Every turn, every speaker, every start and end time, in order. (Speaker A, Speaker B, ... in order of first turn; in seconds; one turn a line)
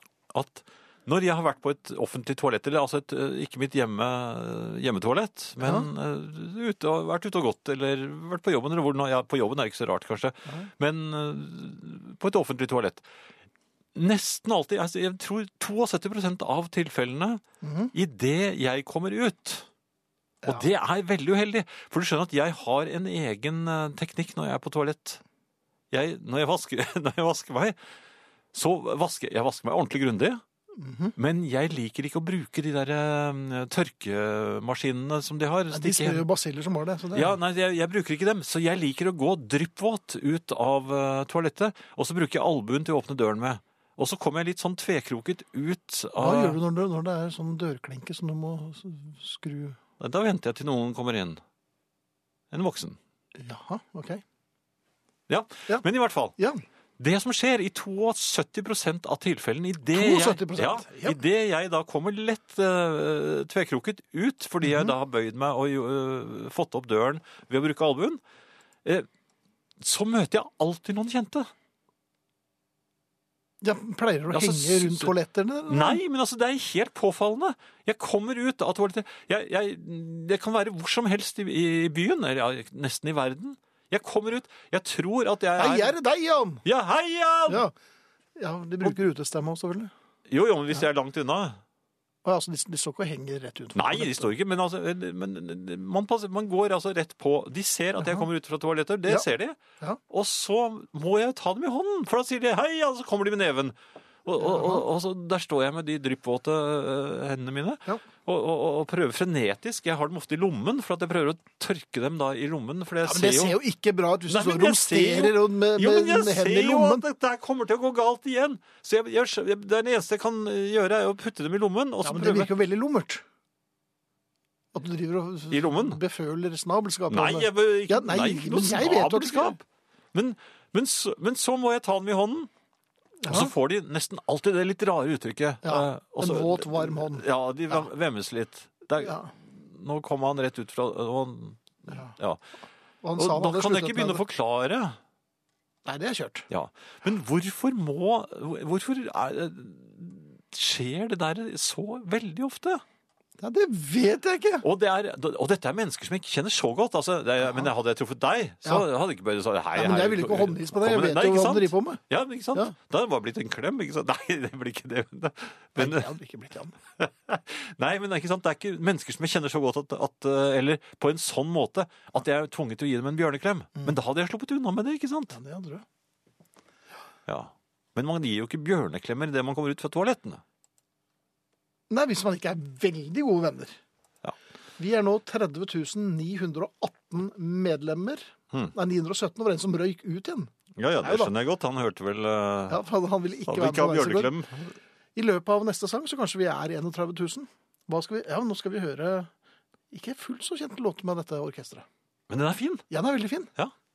Speaker A: 0.3-13.1
Speaker B: 5.6-5.9
Speaker A: 13.9-19.7
Speaker B: 17.6-17.9
Speaker A: 20.5-25.2
Speaker A: 25.9-27.8
Speaker A: 28.5-30.4
Speaker B: 30.8-31.1
Speaker A: 31.2-36.3
Speaker B: 35.7-37.4
Speaker A: 37.1-46.6
Speaker B: 46.2-49.8
Speaker A: 50.0-51.4
Speaker A: 52.5-53.0
Speaker B: 53.4-54.2
Speaker A: 55.3-56.3
Speaker B: 56.4-56.6
Speaker A: 57.0-68.2
Speaker B: 59.9-61.2
Speaker B: 64.6-64.9
Speaker A: 69.8-71.5
Speaker B: 73.6-76.0
Speaker A: 74.3-75.1
Speaker A: 75.7-85.9
Speaker B: 85.6-86.6
Speaker A: 86.7-87.7
Speaker B: 87.5-87.7
Speaker B: 88.4-89.9
Speaker A: 90.3-91.6
Speaker B: 92.2-94.3
Speaker A: 93.8-99.6
Speaker A: 100.1-113.6
Speaker B: 104.4-104.8
Speaker B: 113.0-117.0
Speaker A: 114.3-122.5
Speaker B: 122.0-123.2
Speaker B: 124.7-129.6
Speaker A: 125.5-126.0
Speaker A: 127.1-132.5
Speaker B: 133.2-133.5
Speaker A: 133.3-142.4
Speaker B: 135.6-137.9
Speaker B: 139.0-139.3
Speaker B: 141.9-142.2
Speaker B: 143.0-144.2
Speaker A: 143.2-145.0
Speaker B: 145.8-146.5
Speaker A: 146.5-152.8
Speaker B: 153.4-154.7
Speaker A: 154.6-166.1
Speaker B: 159.8-162.0
Speaker B: 165.8-166.8
Speaker A: 167.0-175.4
Speaker B: 175.3-175.8
Speaker A: 177.3-180.4
Speaker B: 181.9-183.8
Speaker B: 184.8-190.5
Speaker A: 190.8-192.8
Speaker B: 191.0-191.3
Speaker B: 192.7-194.3
Speaker A: 193.5-194.7
Speaker B: 195.2-199.3
Speaker B: 199.9-201.8
Speaker A: 202.3-202.9
Speaker B: 202.9-203.5